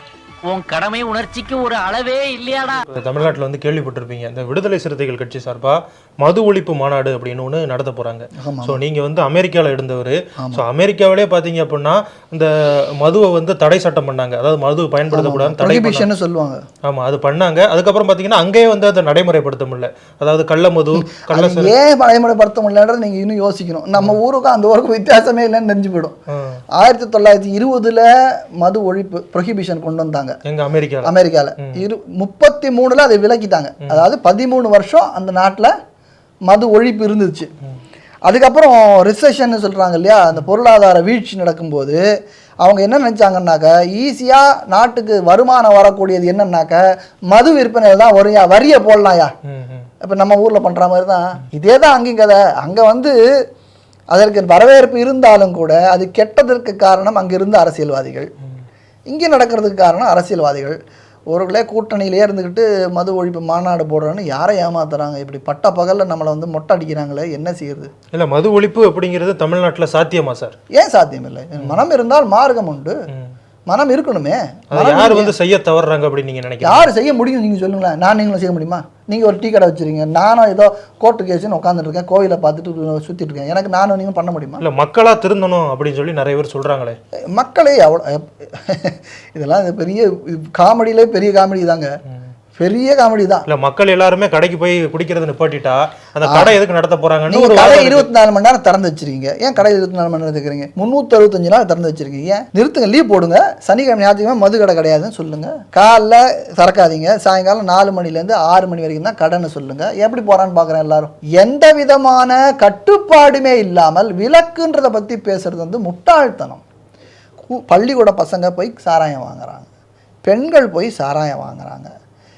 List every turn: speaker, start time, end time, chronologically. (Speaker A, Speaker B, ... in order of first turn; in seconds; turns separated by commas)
Speaker A: 0.5-2.8, Speaker B: 2.9-12.5, Speaker C: 8.4-8.8, Speaker C: 10.4-10.6, Speaker B: 13.0-16.1, Speaker C: 15.1-16.6, Speaker B: 16.8-21.7, Speaker C: 21.1-26.1, Speaker C: 26.7-28.1, Speaker C: 28.6-30.4, Speaker B: 30.5-31.8, Speaker C: 31.0-35.7, Speaker C: 36.5-37.5, Speaker C: 38.2-42.0, Speaker C: 42.6-49.3, Speaker B: 49.5-49.9, Speaker C: 50.0-53.1, Speaker C: 54.1-58.3, Speaker C: 59.1-60.8, Speaker C: 61.3-67.9, Speaker B: 68.1-70.5, Speaker C: 70.7-73.0, Speaker C: 73.7-75.3, Speaker B: 74.7-76.9, Speaker C: 76.6-84.6, Speaker B: 84.6-87.0, Speaker C: 87.3-91.9, Speaker C: 92.5-93.4, Speaker B: 93.5-98.1, Speaker C: 96.2-96.5, Speaker C: 97.3-116.6, Speaker C: 117.5-119.7, Speaker C: 120.2-121.9